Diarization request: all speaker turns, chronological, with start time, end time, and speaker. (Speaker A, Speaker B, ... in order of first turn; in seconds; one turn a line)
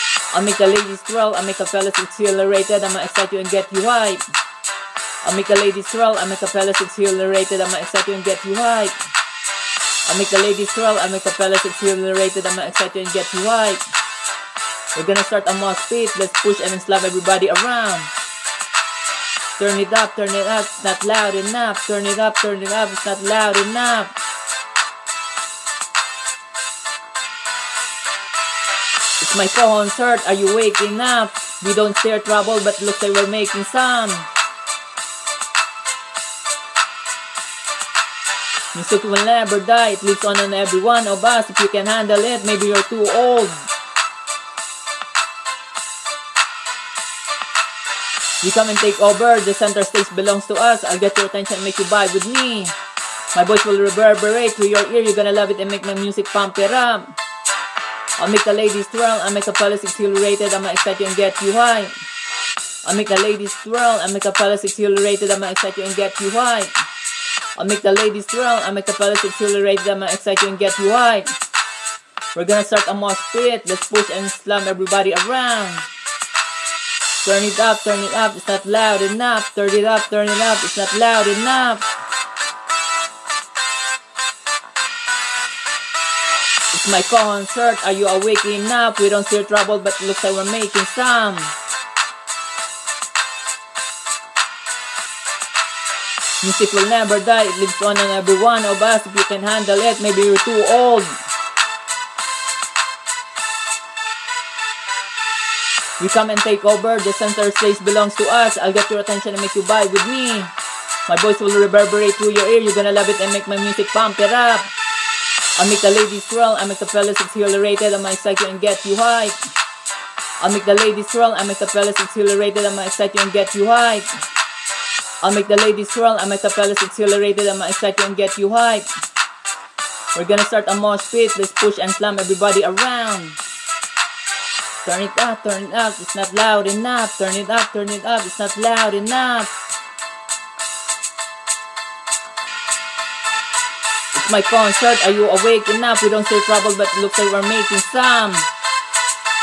Speaker A: 0.3-4.3
Speaker A: 5.2-9.0
Speaker A: 10.1-13.8
Speaker A: 14.9-18.1
Speaker A: 19.6-24.1
Speaker A: 29.2-34.3
Speaker A: 38.7-43.7
Speaker A: 48.4-52.8
Speaker A: 53.3-57.1
Speaker A: 58.2-62.0
Speaker A: 62.9-66.8
Speaker A: 67.6-71.3
Speaker A: 72.3-75.9
Speaker A: 77.2-81.9
Speaker A: 86.7-91.6
Speaker A: 96.4-101.2
Speaker A: 106.0-110.5
Speaker A: 111.1-114.7
Speaker A: 115.6-119.4
Speaker A: 120.4-124.2
Speaker A: 125.2-128.9
Speaker A: 130.2-133.4
Speaker A: 134.8-139.5
Speaker A: 144.2-148.5